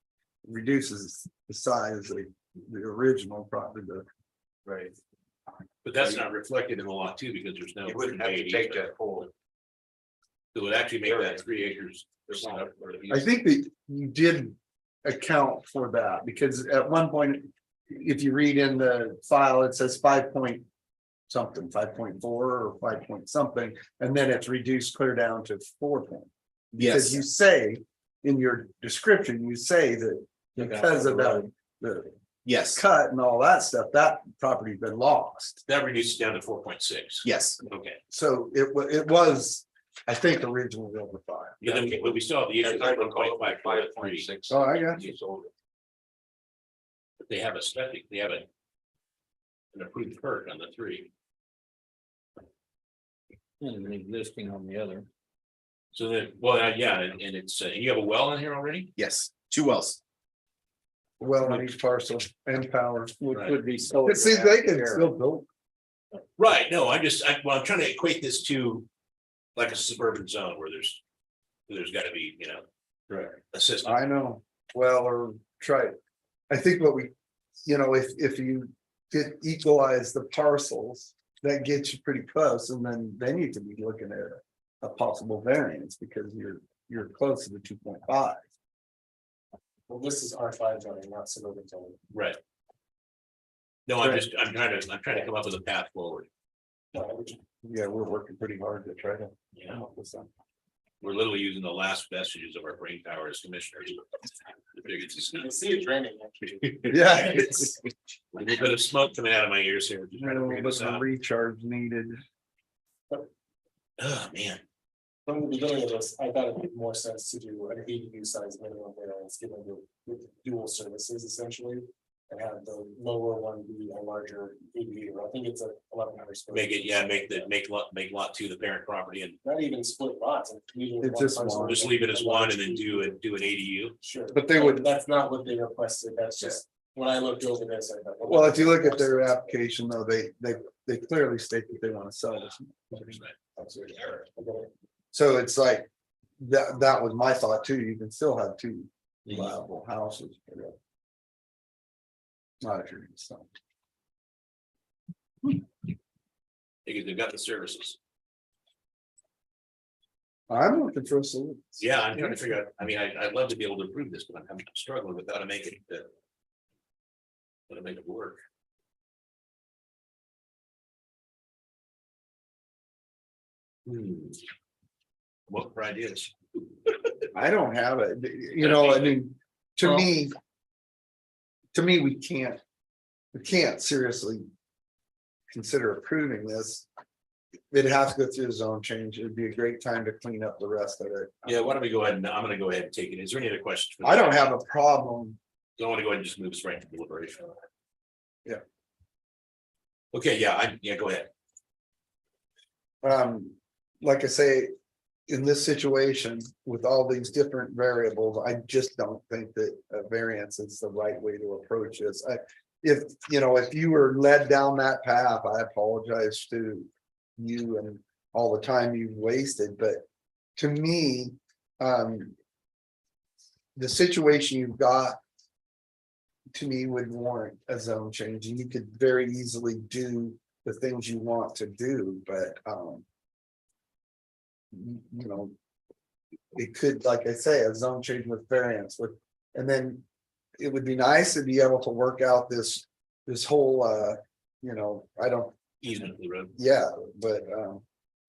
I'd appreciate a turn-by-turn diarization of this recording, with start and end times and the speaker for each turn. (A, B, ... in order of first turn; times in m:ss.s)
0:00.4-0:04.0 A
0:04.7-0:05.0 B
0:05.8-0:08.8 C
0:07.8-0:09.3 B
0:10.5-0:12.7 C
0:11.0-0:11.5 B
0:12.2-0:13.3 B
0:13.1-0:20.7 A
0:21.3-0:32.1 A
0:26.7-0:27.2 D
0:30.6-0:31.5 E
0:32.4-0:32.8 D
0:32.6-0:35.6 A
0:35.7-0:38.0 C
0:37.2-0:37.6 D
0:38.1-0:41.9 A
0:41.6-0:44.3 C
0:41.7-0:45.5 B
0:44.5-0:45.0 A
0:47.2-0:48.4 C
0:49.7-0:51.1 C
0:53.6-0:55.1 E
0:55.9-0:58.9 C
0:59.0-1:00.0 D
1:01.2-1:03.2 A
1:03.2-1:05.1 E
1:04.0-1:05.5 A
1:06.4-1:08.9 C
1:09.6-1:11.0 C
1:11.7-1:14.0 C
1:13.8-1:15.9 A
1:16.5-1:17.1 A
1:17.6-1:28.4 A
1:29.9-1:32.0 F
1:32.1-1:32.4 C
1:33.9-1:36.3 C
1:34.0-1:34.2 A
1:36.9-1:37.4 F
1:37.6-1:40.3 A
1:39.5-1:39.8 C
1:41.0-1:44.1 C
1:44.7-1:45.6 C
1:45.3-1:47.4 F
1:46.9-1:47.8 A
1:46.9-1:47.7 C
1:48.3-1:51.0 C
1:50.1-1:52.2 A
1:54.0-1:54.6 C
1:55.2-2:07.4 F
2:06.5-2:09.4 C
2:09.4-2:13.1 F
2:11.0-2:11.8 A
2:11.6-2:14.0 C
2:14.0-2:19.3 F
2:14.3-2:14.8 A
2:18.2-2:24.2 A
2:23.0-2:23.3 C
2:24.3-2:24.7 F
2:25.1-2:25.9 A
2:26.4-2:30.8 A
2:32.6-2:33.5 A
2:36.9-2:38.0 C
2:40.5-2:42.5 A
2:41.8-2:46.1 C
2:47.7-2:48.4 C
2:53.9-2:54.4 C
2:55.5-2:57.3 C
2:57.3-3:00.3 A
2:58.6-2:59.2 C
3:01.7-3:02.6 A
3:03.3-3:04.4 A
3:05.5-3:06.9 A
3:07.7-3:11.6 A
3:11.4-3:14.6 C
3:14.0-3:15.4 A
3:15.8-3:17.6 C
3:20.1-3:21.3 C
3:23.0-3:24.7 A
3:25.3-3:40.0 A
3:40.6-3:42.3 A
3:43.8-3:45.2 A
3:46.5-3:53.0 A
3:54.7-3:55.5 A
3:56.5-4:00.0 A
4:00.6-4:05.5 A
4:05.8-4:06.5 C
4:06.5-4:07.8 A